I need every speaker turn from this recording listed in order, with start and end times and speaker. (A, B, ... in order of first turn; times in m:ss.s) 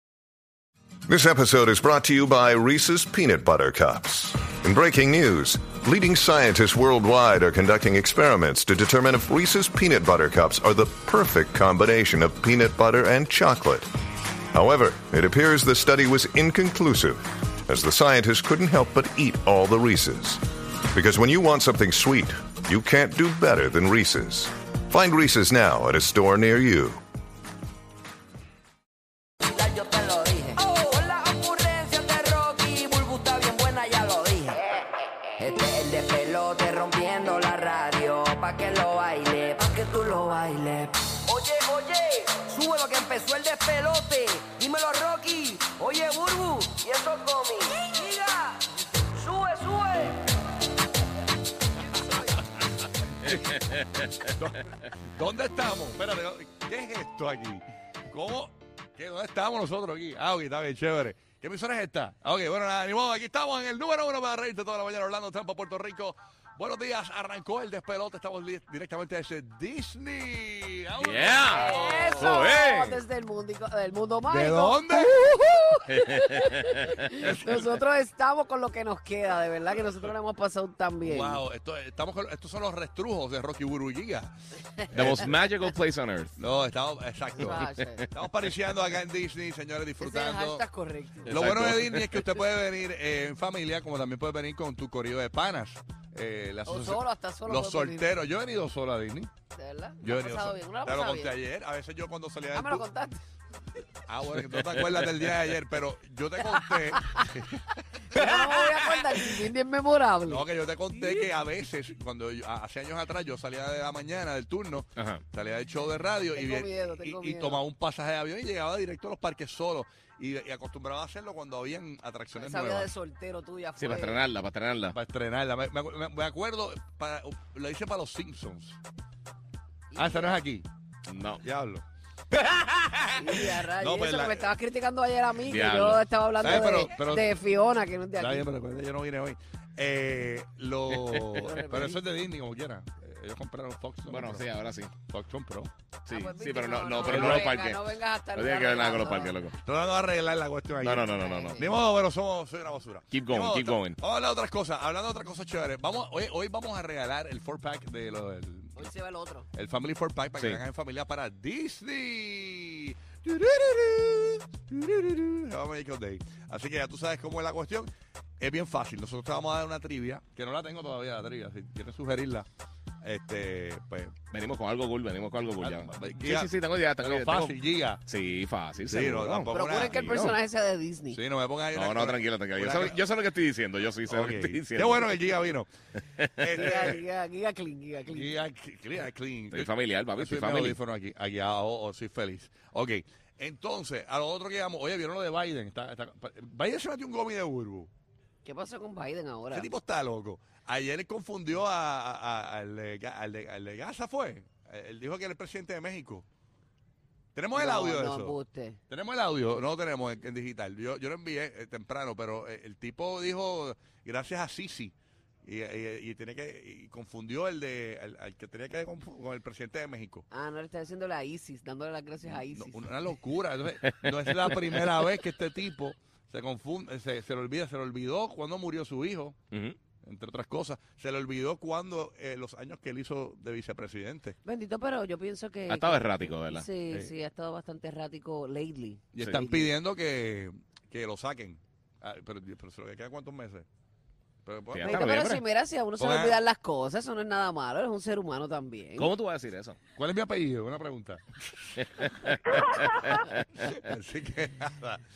0:01.1-0:13.9 A
0:14.5-0:27.0 A
0:29.4-0:34.8 B
0:35.4-0:50.2 B
0:53.2-1:12.5 C
1:11.0-1:13.0 D
1:11.5-1:15.1 E
1:14.3-1:15.5 C
1:15.7-1:21.4 E
1:15.9-1:17.0 D
1:17.1-1:17.8 C
1:21.0-1:24.4 C
1:24.9-1:25.4 C
1:24.9-1:26.3 D
1:26.4-1:30.6 C
1:27.4-1:28.0 E
1:27.4-1:27.9 D
1:30.0-1:31.4 E
1:31.3-1:32.4 D
1:31.3-1:39.3 C
1:36.6-1:38.1 E
1:39.6-1:41.4 E
1:40.0-1:42.9 C
1:42.5-1:43.2 E
1:44.1-1:49.0 C
1:47.0-1:47.2 E
1:48.1-1:50.4 E
1:50.3-2:02.9 C
1:55.0-1:55.2 D
1:56.4-1:57.6 E
2:02.3-2:04.2 E
2:03.8-2:05.0 D
2:04.9-2:08.8 C
2:09.9-2:10.4 E
2:10.0-2:10.7 C
2:11.1-2:11.4 D
2:11.4-2:14.5 C
2:13.2-2:18.5 E
2:15.4-2:16.1 D
2:16.4-2:17.3 C
2:18.2-2:25.7 C
2:21.3-2:22.0 E
2:24.1-2:24.9 D
2:26.1-2:29.6 D
2:26.1-2:29.5 E
2:27.0-2:27.5 C
2:29.5-2:38.9 C
2:30.8-2:31.7 D
2:31.0-2:31.8 E
2:33.1-2:34.0 D
2:38.8-2:39.5 E
2:39.5-2:52.5 C
2:40.4-2:40.6 D
2:53.0-2:54.1 C
2:54.3-3:00.4 D
2:55.6-2:58.0 C
2:58.8-3:00.3 C
2:59.5-3:01.2 E
3:01.1-3:03.0 C
3:01.7-3:05.3 D
3:04.1-3:05.7 C
3:06.2-3:06.5 D
3:06.4-3:07.0 C
3:06.5-3:08.4 E
3:08.1-3:17.9 C
3:09.5-3:10.8 D
3:18.4-3:19.7 E
3:19.5-3:26.2 C
3:27.3-3:28.4 C
3:27.6-3:28.8 E
3:28.9-3:34.9 C
3:35.4-3:40.2 C
3:40.3-3:42.9 E
3:42.2-3:49.4 C
3:49.5-3:49.8 D
3:50.0-3:54.4 C
3:54.4-3:59.7 E
3:55.7-3:56.7 D
3:59.1-4:03.7 C
3:59.2-3:59.4 D
4:04.4-4:05.2 C
4:04.7-4:05.4 D
4:04.8-4:09.1 E
4:06.0-4:06.4 C
4:09.0-4:09.8 D
4:09.9-4:15.0 C
4:11.8-4:13.7 D